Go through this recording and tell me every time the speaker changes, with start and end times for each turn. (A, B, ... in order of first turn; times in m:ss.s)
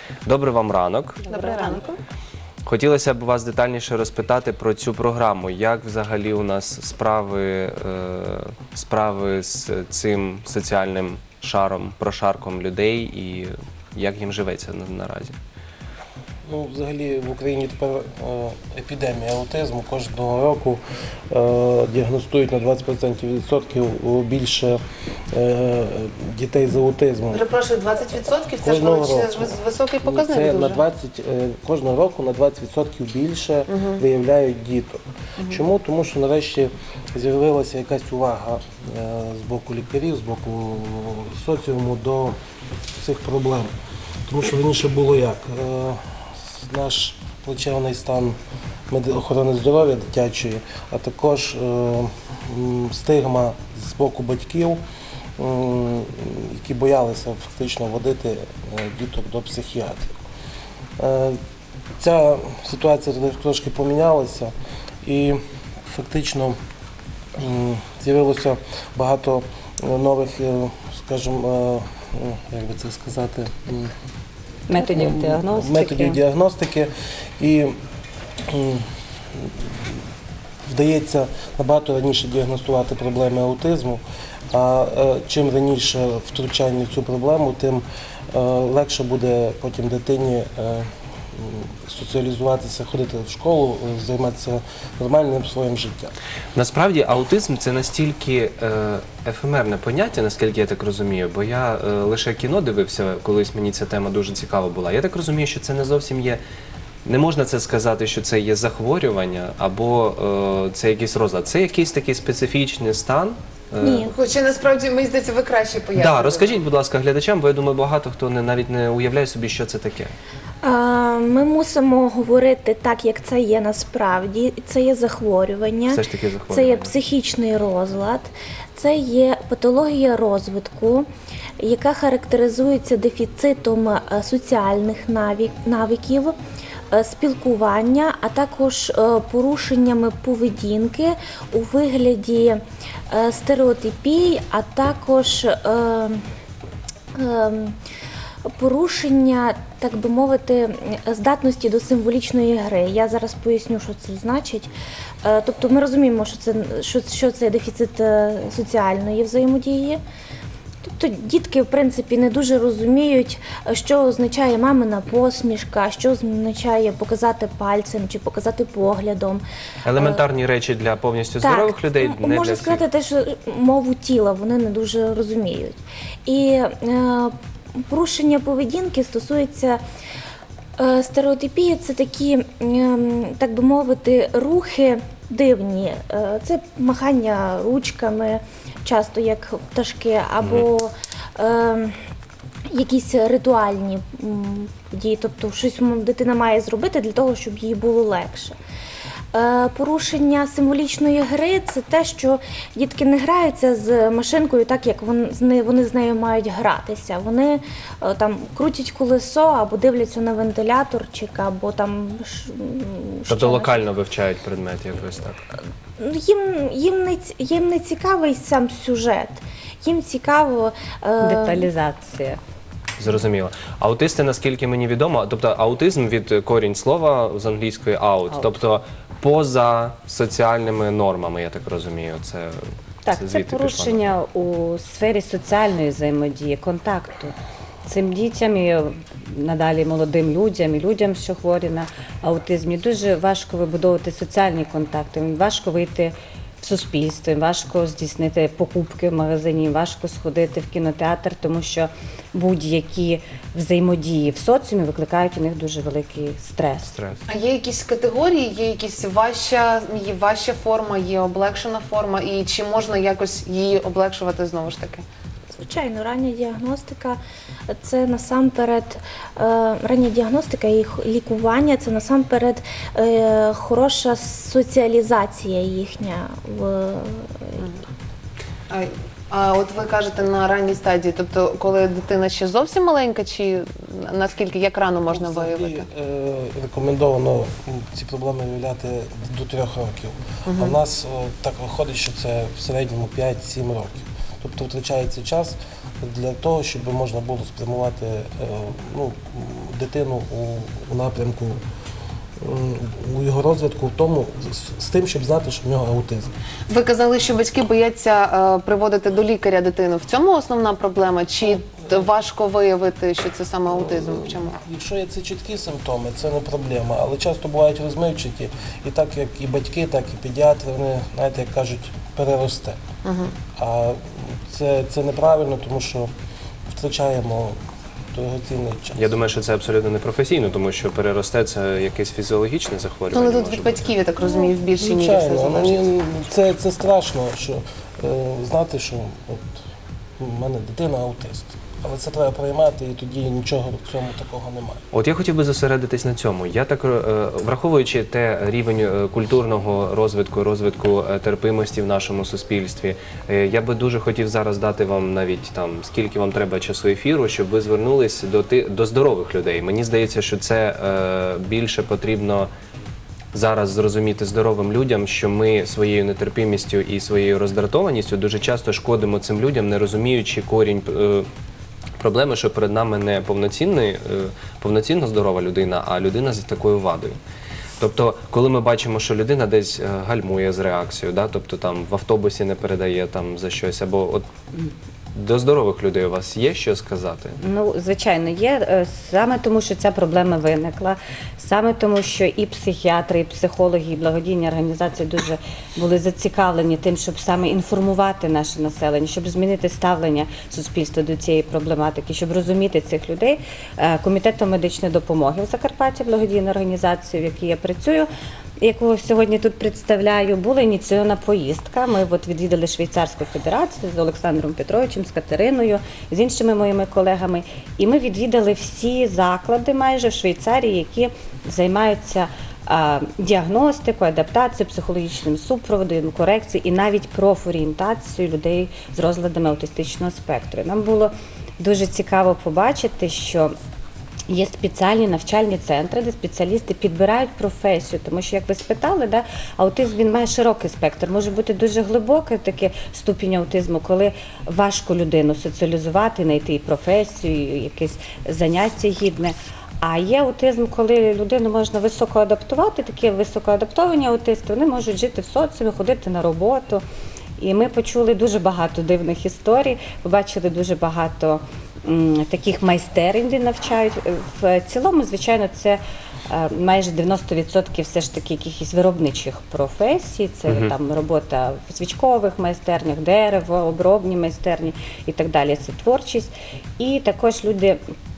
0:00.2-0:01.2 A
0:01.3-0:01.9 B
0:01.3-0:01.8 C
0:02.6-0:15.4 A
0:16.5-0:27.4 D
0:27.3-0:30.8 B
0:28.6-0:42.4 D
0:33.7-0:34.0 B
0:43.0-0:43.7 D
0:44.3-0:48.4 D
0:48.9-0:54.8 D
0:55.4-1:00.1 D
1:01.0-1:01.4 D
1:02.0-1:04.5 D
1:05.0-1:06.6 D
1:07.4-1:13.9 D
1:14.7-1:16.2 C
1:14.8-1:17.8 D
1:18.4-1:20.0 D
1:20.6-1:36.2 D
1:36.6-1:46.4 A
1:47.0-1:54.1 A
1:53.8-1:54.1 E
1:54.0-1:56.6 B
1:56.0-2:00.2 A
2:00.6-2:11.1 E
2:05.9-2:06.9 A
2:11.6-2:16.4 E
2:16.9-2:26.2 E
2:27.1-2:27.8 E
2:28.4-2:34.7 E
2:35.2-2:40.0 E
2:40.8-2:49.4 E
2:49.8-2:52.8 A
2:51.4-2:59.8 E
3:00.8-3:12.0 E
3:12.7-3:18.6 E
3:19.3-3:33.9 E
3:33.3-3:35.4 A
3:36.0-3:41.7 E
3:41.2-3:42.4 C
3:43.0-3:54.1 A
3:48.3-3:48.6 C
3:53.1-3:57.4 C
3:57.9-4:17.0 C
4:16.9-4:17.2 A
4:17.3-4:25.0 B
4:25.6-4:37.7 E
4:38.7-4:45.9 B
4:45.1-5:01.6 D
4:50.5-4:50.8 B
5:02.4-5:06.3 D
5:06.7-5:14.6 B
5:13.7-5:22.8 D
5:23.0-5:23.4 B
5:23.5-5:26.1 D
5:26.7-5:27.6 D
5:28.1-5:29.2 D
5:29.0-5:33.9 A
5:33.1-5:35.8 B
5:34.8-5:39.6 D
5:40.2-5:44.8 D
5:44.9-6:02.5 A
6:03.3-6:11.3 A
6:12.0-6:17.2 A
6:17.8-6:24.3 A
6:25.1-6:27.4 A
6:27.4-6:48.1 C
6:48.6-7:13.5 C
7:14.3-7:36.8 C
7:37.4-7:57.8 C